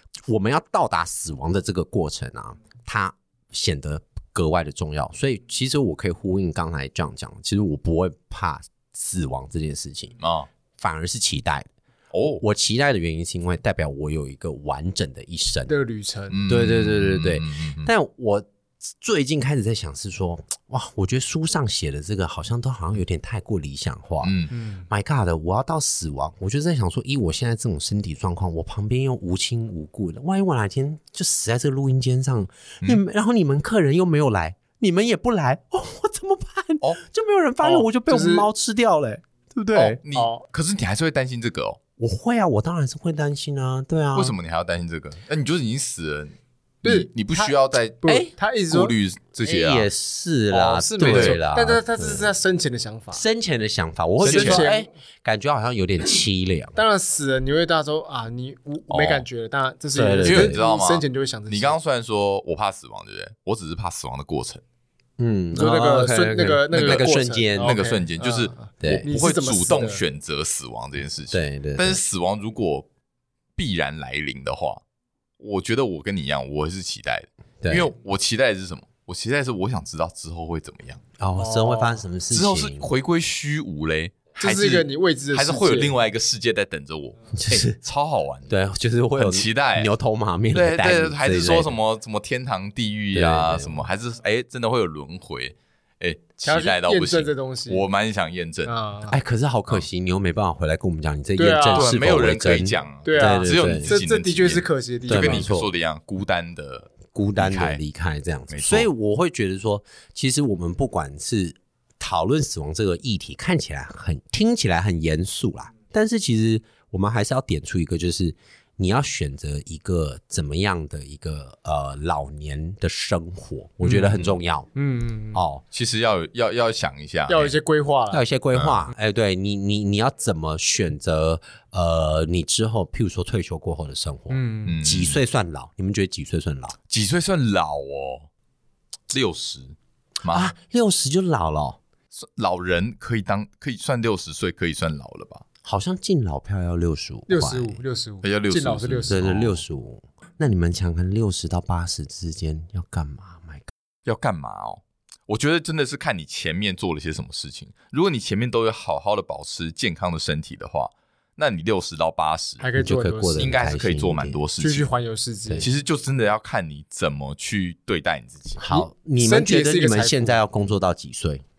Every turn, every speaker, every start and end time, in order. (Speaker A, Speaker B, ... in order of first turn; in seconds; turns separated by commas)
Speaker A: 0.2-10.1, Speaker B: 10.2-10.5, Speaker A: 10.8-11.7, Speaker B: 12.1-12.4, Speaker A: 12.4-15.7, Speaker C: 15.7-16.4, Speaker B: 16.3-17.9, Speaker A: 16.5-24.4, Speaker B: 24.2-24.5, Speaker C: 24.5-24.9, Speaker A: 24.9-40.0, Speaker C: 37.6-38.5, Speaker C: 39.7-40.4, Speaker B: 40.0-41.8, Speaker A: 42.0-44.4, Speaker B: 44.1-49.9, Speaker C: 46.8-48.9, Speaker A: 49.4-52.3, Speaker C: 50.5-53.2, Speaker B: 51.0-51.4, Speaker A: 53.1-56.7, Speaker C: 54.2-54.9, Speaker B: 54.2-54.7, Speaker C: 56.7-61.8, Speaker B: 58.9-59.2, Speaker A: 59.9-60.6, Speaker B: 60.2-64.6, Speaker A: 65.2-67.7, Speaker C: 65.5-70.0, Speaker B: 66.7-67.0, Speaker B: 67.6-72.9, Speaker A: 68.8-69.1, Speaker A: 71.3-72.0, Speaker B: 73.6-74.8, Speaker B: 75.4-81.0, Speaker A: 77.6-77.9, Speaker A: 81.2-82.9, Speaker C: 81.4-82.0, Speaker B: 82.3-88.5, Speaker C: 84.4-85.9, Speaker A: 87.4-87.7, Speaker A: 88.5-91.7, Speaker B: 89.2-89.9, Speaker B: 90.5-98.7, Speaker A: 93.1-93.9, Speaker C: 96.4-97.8, Speaker C: 98.7-99.2, Speaker A: 99.1-103.9, Speaker C: 101.4-101.9, Speaker B: 101.7-107.8, Speaker C: 103.0-105.5, Speaker A: 105.1-105.7, Speaker A: 107.1-124.7, Speaker B: 108.5-108.9, Speaker C: 123.8-124.2, Speaker B: 123.9-124.4, Speaker C: 124.7-125.4, Speaker A: 125.3-125.6, Speaker B: 125.7-127.5, Speaker C: 127.3-128.2, Speaker A: 128.1-136.8, Speaker B: 128.5-128.8, Speaker C: 134.3-134.8, Speaker B: 134.7-135.2, Speaker B: 136.9-138.3, Speaker B: 139.1-140.5, Speaker A: 140.3-141.8, Speaker B: 142.1-145.4, Speaker A: 145.6-147.8, Speaker C: 147.3-149.2, Speaker B: 148.2-149.6, Speaker A: 149.1-153.7, Speaker B: 154.1-162.6, Speaker C: 162.6-163.5, Speaker A: 162.8-164.4, Speaker B: 163.4-164.9, Speaker C: 164.6-165.7, Speaker B: 165.6-168.6, Speaker A: 168.6-171.4, Speaker C: 168.7-170.4